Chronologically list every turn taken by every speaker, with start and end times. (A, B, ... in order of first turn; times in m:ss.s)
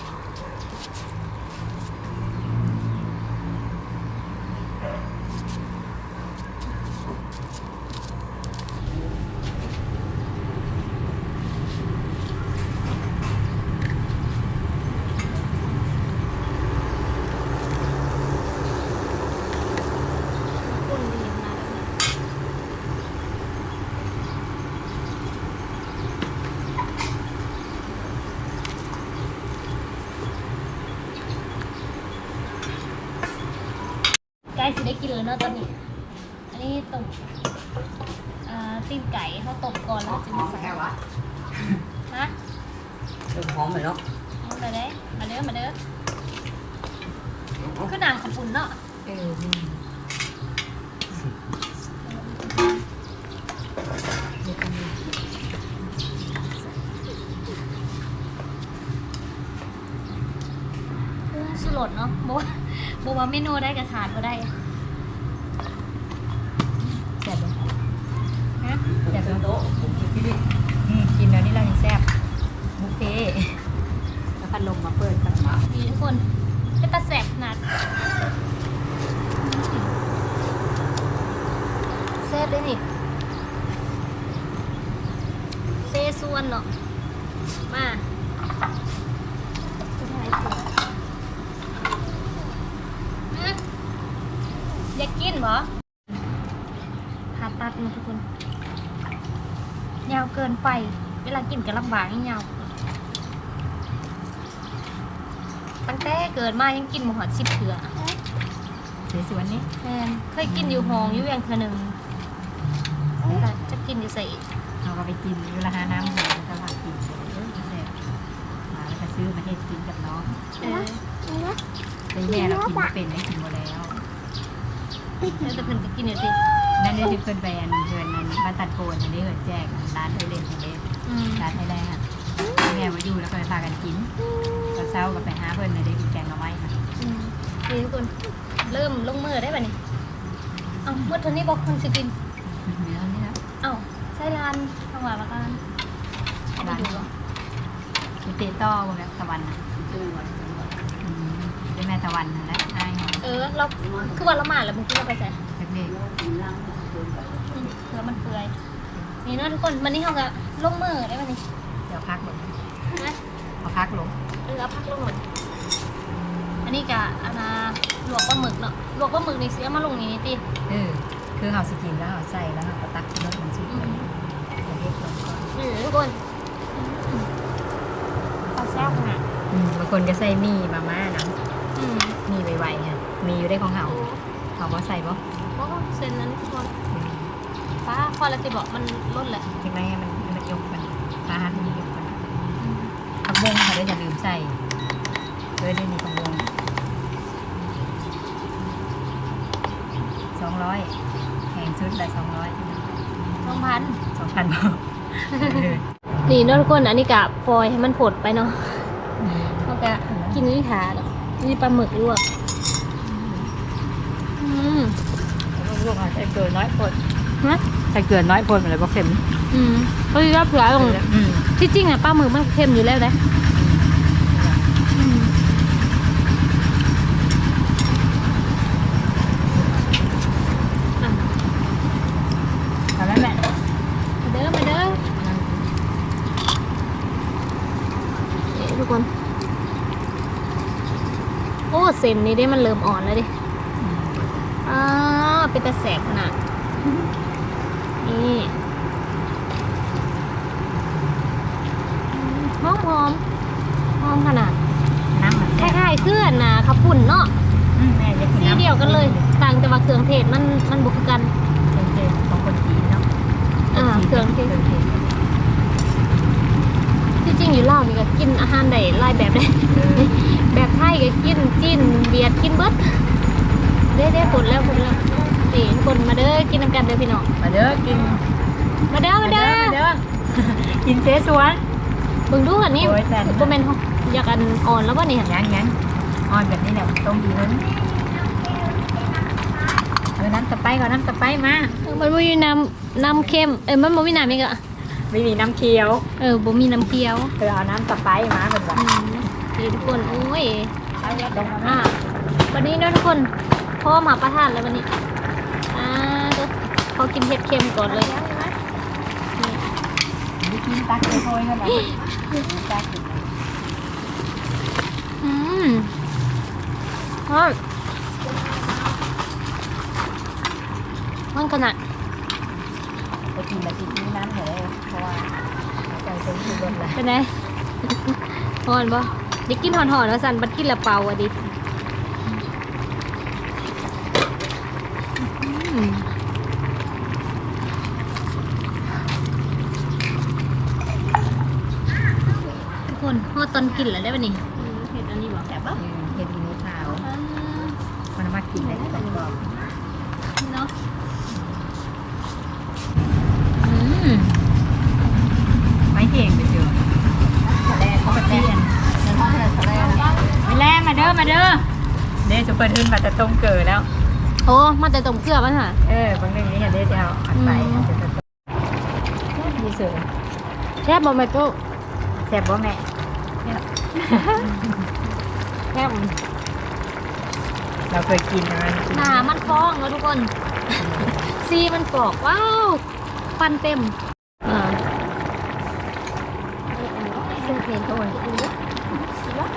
0:20.6-0:21.9 A
0:34.5-0:35.7 A
0:36.5-0:37.2 A
0:38.4-0:40.8 A
0:40.3-0:40.8 B
0:43.3-0:44.0 B
0:44.4-0:45.8 A
0:47.8-0:48.8 A
0:49.0-0:49.8 C
0:52.0-0:52.6 A
0:54.4-0:55.0 C
0:56.2-0:56.8 C
1:01.3-1:04.5 A
1:07.0-1:07.6 C
1:09.1-1:09.5 C
1:09.1-1:10.4 B
1:10.8-1:12.1 C
1:12.8-1:13.6 C
1:14.4-1:15.6 C
1:15.6-1:16.3 A
1:16.8-1:17.6 A
1:19.4-1:19.9 A
1:22.2-1:22.8 A
1:25.8-1:26.7 A
1:27.7-1:28.0 A
1:30.0-1:30.7 A
1:33.3-1:33.6 A
1:34.9-1:35.7 A
1:37.3-1:38.2 A
1:40.0-1:42.7 A
1:45.8-1:48.1 A
1:49.1-1:49.7 C
1:49.8-1:52.0 A
1:50.4-1:51.3 C
1:53.2-1:54.4 A
1:54.8-1:57.9 C
1:58.7-2:00.4 C
2:00.6-2:01.0 A
2:02.1-2:04.0 C
2:05.2-2:05.9 C
2:05.3-2:06.4 A
2:06.8-2:10.8 C
2:11.0-2:11.4 A
2:11.4-2:12.0 C
2:12.6-2:14.1 C
2:14.7-2:16.8 C
2:17.0-2:19.8 A
2:20.8-2:22.1 A
2:22.4-2:23.4 C
2:23.6-2:25.6 A
2:26.6-2:27.1 A
2:26.6-2:27.1 C
2:28.2-2:29.6 C
2:29.8-2:30.7 B
2:31.0-2:33.3 C
2:33.2-2:35.4 A
2:35.6-2:36.0 C
2:35.9-2:37.5 B
2:37.5-2:38.5 A
2:39.2-2:41.4 A
2:41.9-2:42.6 C
2:42.9-2:43.2 A
2:43.6-2:44.1 C
2:44.4-2:45.2 A
2:46.6-2:50.4 A
2:50.7-2:54.0 C
2:53.7-2:54.1 A
2:54.6-2:55.5 C
2:55.5-2:56.2 A
2:56.7-2:57.3 A
2:58.5-2:59.2 A
2:59.5-3:01.4 C
3:01.8-3:02.2 A
3:02.3-3:04.0 C
3:03.8-3:04.2 A
3:04.6-3:05.2 C
3:05.5-3:06.7 A
3:06.9-3:07.3 C
3:07.8-3:09.5 A
3:09.6-3:12.2 C
3:12.6-3:12.9 A
3:13.2-3:14.6 C
3:15.6-3:16.5 C
3:20.3-3:20.9 C
3:21.5-3:22.9 C
3:23.4-3:24.0 A
3:24.1-3:25.8 C
3:25.4-3:25.7 A
3:26.2-3:28.9 A
3:29.2-3:30.4 C
3:29.6-3:32.2 A
3:33.0-3:33.5 C
3:34.4-3:35.0 A
3:35.5-3:37.0 C
3:37.9-3:39.2 C
3:39.5-3:41.0 A
3:40.7-3:41.5 C
3:41.6-3:43.2 A
3:43.5-3:44.6 C
3:44.9-3:45.3 A
3:49.5-3:50.0 C
3:51.0-3:51.3 A
3:53.0-3:53.4 C
3:54.2-3:55.0 A
3:55.0-3:55.6 C
3:58.5-3:59.1 A
4:01.7-4:03.3 A
4:03.8-4:04.3 C
4:04.6-4:06.3 A
4:08.0-4:08.6 A
4:12.1-4:13.2 A
4:14.0-4:14.6 A
4:15.1-4:16.0 C
4:15.6-4:17.3 A
4:17.8-4:19.3 C
4:18.3-4:21.3 A
4:21.7-4:23.0 C
4:23.7-4:25.2 C
4:23.7-4:24.5 A
4:27.2-4:33.1 A
4:29.7-4:30.1 C
4:33.9-4:37.3 A
4:37.4-4:38.2 C
4:38.8-4:39.8 A
4:39.2-4:41.6 C
4:42.3-4:45.3 A
4:42.8-4:43.5 C
4:45.2-4:45.8 C
4:46.3-4:47.9 C
4:48.2-4:49.3 A
4:50.2-4:51.8 C
4:51.8-4:54.6 A
4:53.0-4:54.1 C
4:54.8-4:56.0 C
4:56.2-4:57.3 A
4:57.4-4:58.8 C
4:58.7-5:02.0 A
4:59.8-5:00.3 C
5:01.0-5:01.9 C
5:02.5-5:04.9 A
5:05.7-5:08.1 A
5:08.1-5:08.4 C
5:09.4-5:09.6 A
5:10.4-5:13.3 C
5:15.2-5:15.9 A
5:17.3-5:17.6 A
5:21.3-5:21.8 A
5:23.3-5:25.3 C
5:25.9-5:27.0 C
5:26.8-5:31.3 A
5:35.2-5:36.1 A
5:42.8-5:45.8 A
5:45.7-5:47.0 C
5:46.9-5:47.8 A
5:48.2-5:49.6 C
5:48.6-5:49.0 A
5:50.4-5:50.7 A
5:51.3-5:51.7 C
5:53.6-5:54.3 A
5:55.9-5:56.8 C
5:57.4-5:58.3 B
5:57.9-5:58.9 C
5:59.0-6:00.2 B
5:59.4-6:00.1 A
6:00.3-6:01.7 C
6:02.2-6:03.9 C
6:04.4-6:05.8 A
6:05.8-6:08.2 C
6:07.3-6:07.9 A
6:09.3-6:10.1 C
6:10.8-6:11.6 A
6:12.2-6:12.8 C
6:14.0-6:14.8 C
6:15.7-6:16.2 A
6:17.9-6:19.6 C
6:18.9-6:20.3 A
6:20.8-6:21.3 C
6:21.0-6:22.8 A
6:23.4-6:24.8 A
6:26.7-6:29.4 A
6:27.6-6:28.2 C